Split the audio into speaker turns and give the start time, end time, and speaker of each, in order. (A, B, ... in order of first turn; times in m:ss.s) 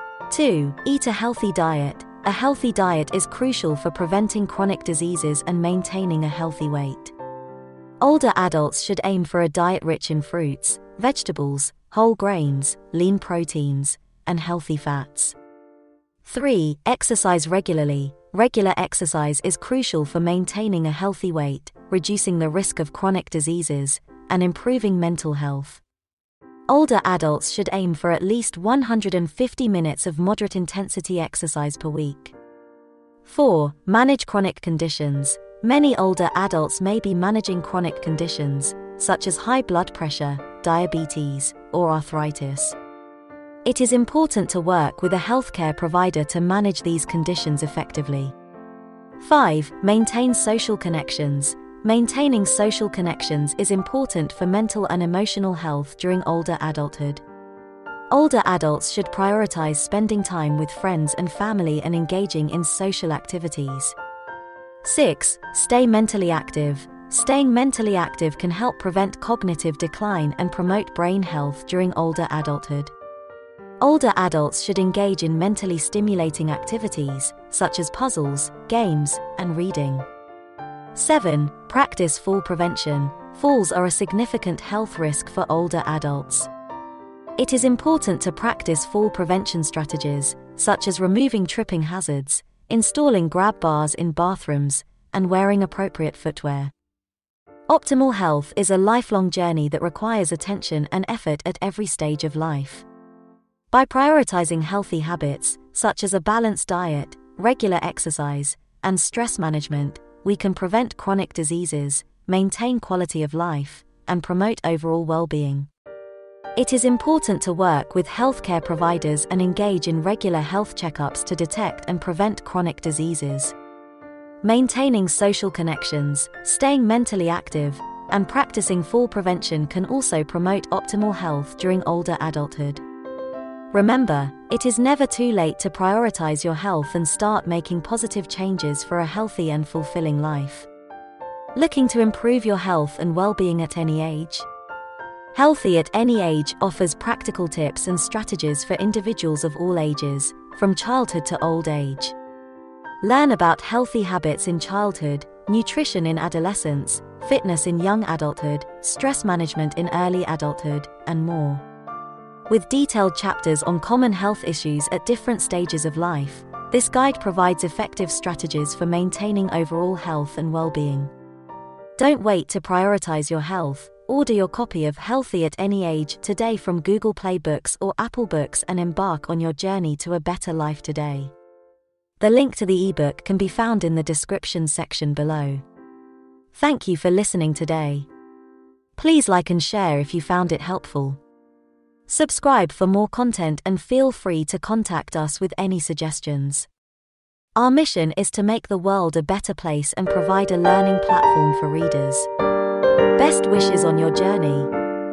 0:00.3-0:07.1 A
0:08.0-0:15.4 A
0:16.2-0:25.8 A
0:26.7-0:32.4 A
0:33.2-0:42.8 A
0:43.6-0:48.3 A
0:49.2-0:57.2 A
0:58.1-1:04.0 A
1:04.8-1:12.9 A
1:13.8-1:20.1 A
1:20.9-1:26.5 A
1:27.4-1:36.7 A
1:37.7-1:42.9 A
1:43.7-1:55.7 A
1:56.6-2:03.6 A
2:04.4-2:12.8 A
2:13.7-2:20.7 A
2:21.6-2:24.5 A
2:25.3-2:32.2 A
2:33.0-2:41.6 A
2:42.5-2:51.1 A
2:52.0-3:01.3 A
3:02.2-3:05.6 A
3:06.5-3:08.1 A
3:09.0-3:11.2 A
3:12.1-3:16.7 A
3:17.6-3:22.3 A
3:23.2-3:24.7 A